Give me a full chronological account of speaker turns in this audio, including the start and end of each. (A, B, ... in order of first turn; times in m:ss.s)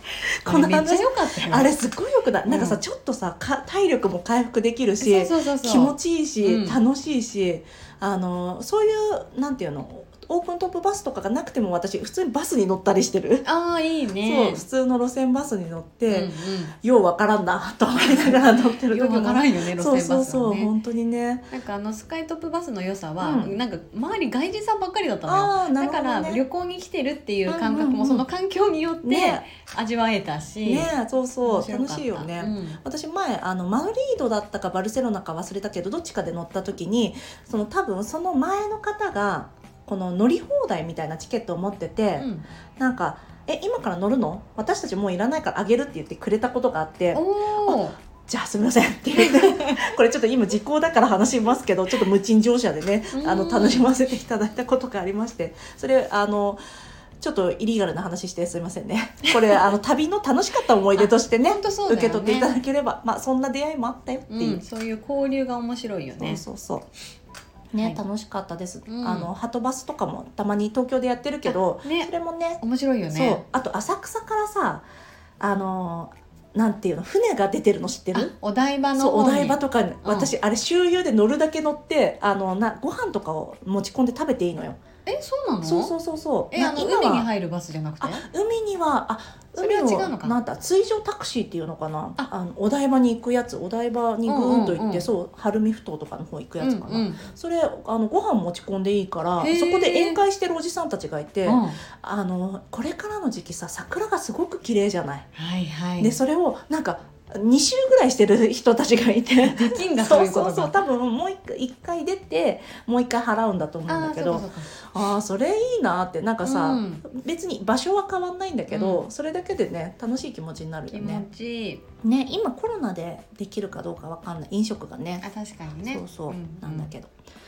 0:00.4-0:13.4 A
0:00.4-0:01.7 B
0:02.5-0:02.8 B
0:05.0-0:06.8 B
0:13.4-0:14.7 B
0:14.2-0:21.5 A
0:16.1-0:16.8 B
0:18.0-0:20.7 B
0:21.5-0:30.9 B
0:23.2-0:23.6 A
0:25.3-0:26.4 A
0:27.5-0:28.2 A
0:29.0-0:29.4 A
0:30.6-0:56.6 A
0:31.4-0:32.8 B
0:42.2-0:42.5 B
0:47.1-0:48.0 B
0:49.3-0:49.7 B
0:53.1-0:53.9 B
0:57.2-1:04.6 A
1:01.0-1:02.5 B
1:04.3-1:06.4 B
1:06.2-1:06.9 A
1:07.7-1:14.8 A
1:08.9-1:09.3 B
1:11.5-1:13.4 B
1:15.4-1:18.3 A
1:18.1-1:20.3 B
1:19.0-1:24.8 A
1:25.1-1:26.0 B
1:25.6-1:27.3 A
1:26.5-1:28.2 B
1:28.0-1:45.3 A
1:29.6-1:30.4 B
1:34.3-1:35.1 B
1:36.6-1:37.2 B
1:39.4-1:40.2 B
1:41.4-1:41.8 B
1:45.4-1:46.2 B
1:46.0-2:01.3 A
1:49.4-1:50.8 B
1:53.9-1:54.8 B
1:56.4-1:57.0 B
1:58.7-1:59.0 B
2:00.9-2:01.8 B
2:02.0-2:05.2 A
2:05.2-2:06.9 B
2:05.9-2:07.1 A